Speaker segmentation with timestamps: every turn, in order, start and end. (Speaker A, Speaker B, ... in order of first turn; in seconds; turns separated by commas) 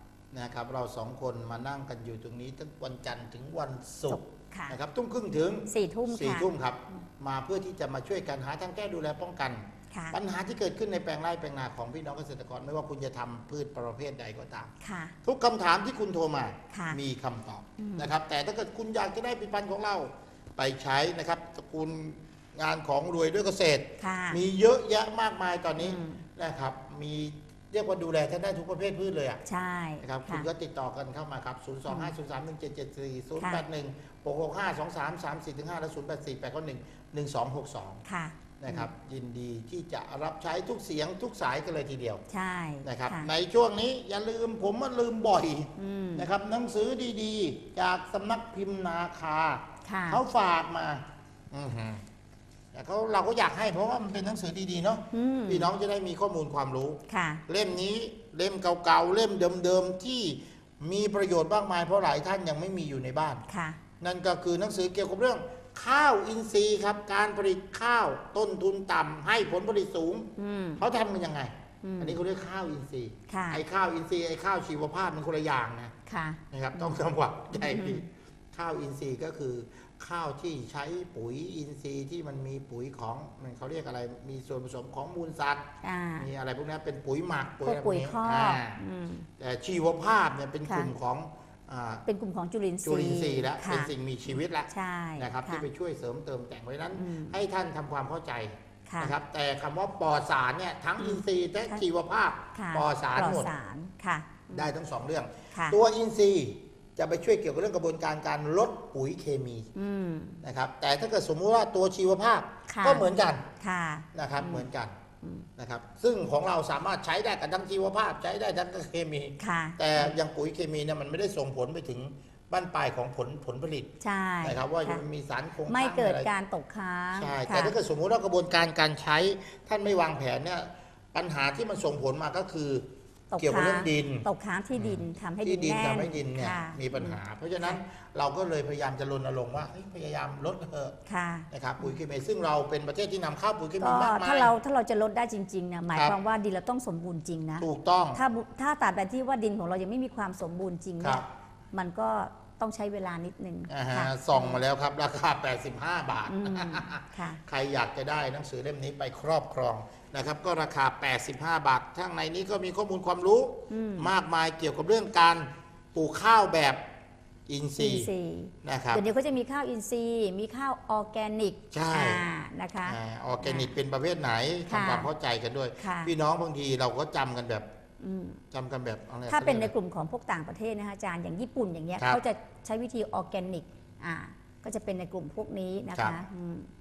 Speaker A: 0.3-14.7, Speaker B: 4.1-4.8, Speaker B: 5.7-6.5, Speaker B: 9.9-10.2, Speaker B: 14.8-15.2, Speaker A: 15.2-29.4, Speaker B: 16.7-17.0, Speaker B: 17.8-18.1, Speaker B: 24.0-24.4, Speaker B: 25.8-26.2, Speaker B: 29.4-30.5, Speaker A: 30.0-38.0, Speaker B: 31.9-32.1, Speaker B: 33.4-33.6, Speaker B: 38.0-38.9, Speaker A: 38.6-42.2, Speaker B: 42.3-43.3, Speaker A: 42.8-52.0, Speaker B: 45.8-46.3, Speaker B: 49.8-50.2, Speaker A: 52.7-63.4, Speaker B: 55.1-55.7, Speaker B: 57.1-57.4, Speaker B: 63.5-63.8, Speaker A: 64.0-75.9, Speaker B: 70.4-70.8, Speaker B: 71.8-72.2, Speaker B: 73.3-73.6, Speaker B: 76.0-77.0, Speaker A: 76.5-88.8, Speaker B: 77.5-78.0, Speaker B: 85.8-86.3, Speaker B: 87.6-89.3, Speaker A: 89.4-92.0, Speaker B: 90.6-90.9, Speaker B: 92.0-93.9, Speaker A: 92.8-103.5, Speaker B: 94.7-95.6, Speaker B: 97.0-97.4, Speaker B: 98.9-99.1, Speaker B: 101.0-101.8, Speaker B: 102.5-104.7, Speaker A: 104.5-109.7, Speaker B: 109.8-110.4, Speaker A: 110.4-113.5, Speaker B: 112.7-113.0, Speaker B: 113.6-114.7, Speaker A: 114.1-114.9, Speaker B: 115.2-115.5, Speaker A: 115.6-126.3, Speaker B: 119.4-120.1, Speaker B: 124.0-125.0, Speaker B: 125.7-127.8, Speaker A: 127.2-132.9, Speaker B: 133.3-137.8, Speaker A: 133.4-141.0, Speaker B: 141.1-142.0, Speaker A: 141.5-144.5, Speaker B: 143.8-154.6, Speaker A: 147.6-148.2, Speaker A: 151.0-151.2, Speaker A: 153.7-166.8, Speaker B: 156.3-157.4, Speaker B: 163.7-164.1, Speaker A: 167.5-168.1, Speaker B: 167.8-173.7, Speaker A: 168.6-169.0, Speaker A: 171.7-172.2, Speaker A: 172.8-177.7, Speaker B: 174.7-175.1, Speaker B: 175.8-176.1, Speaker B: 178.0-178.4, Speaker A: 178.5-179.7, Speaker B: 179.3-186.7